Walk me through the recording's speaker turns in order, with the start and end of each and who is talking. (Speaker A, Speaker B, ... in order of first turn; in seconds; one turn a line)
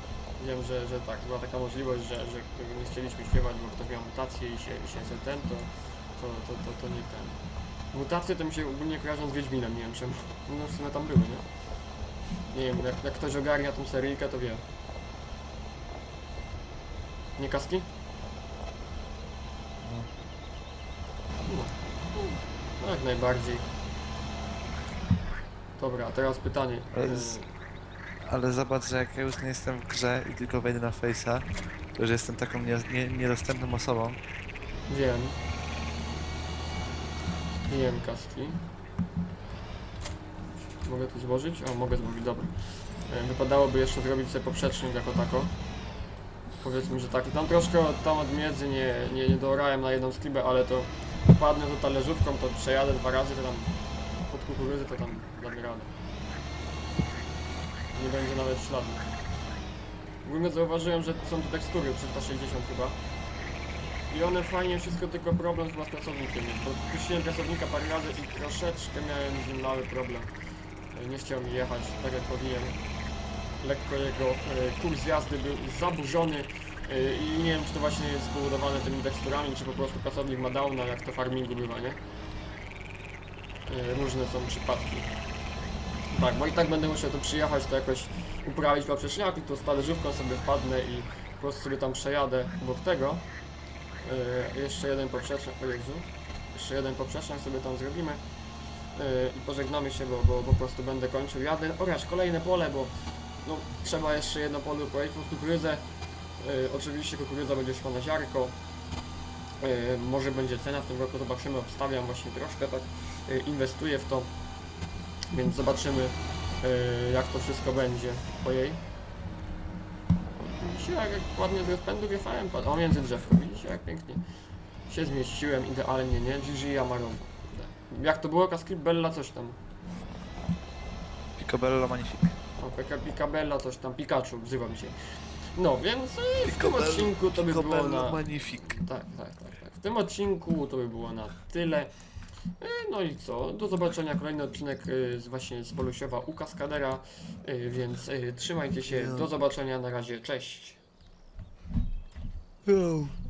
Speaker A: 0.4-11.4
Speaker A: 12.5-14.6
Speaker A: 17.4-17.9
Speaker B: 19.8-20.1
Speaker A: 21.4-23.6
Speaker A: 25.8-27.5
Speaker B: 26.9-27.4
Speaker B: 28.2-34.2
Speaker A: 34.9-35.4
Speaker A: 37.7-38.6
Speaker A: 40.8-42.5
Speaker A: 43.1-45.5
Speaker A: 46.6-53.7
Speaker A: 54.3-55.9
Speaker A: 57.9-59.1
Speaker A: 60.2-63.0
Speaker A: 64.1-70.3
Speaker A: 70.9-72.8
Speaker A: 73.6-82.0
Speaker A: 83.7-85.1
Speaker A: 86.1-93.2
Speaker A: 94.0-98.2
Speaker A: 99.0-102.9
Speaker A: 103.4-105.8
Speaker A: 106.4-108.6
Speaker A: 109.6-114.3
Speaker A: 115.3-118.8
Speaker A: 120.4-124.2
Speaker A: 124.9-129.6
Speaker B: 131.4-132.3
Speaker A: 132.6-134.9
Speaker A: 135.5-141.9
Speaker B: 136.4-138.7
Speaker A: 142.6-150.8
Speaker B: 152.7-153.1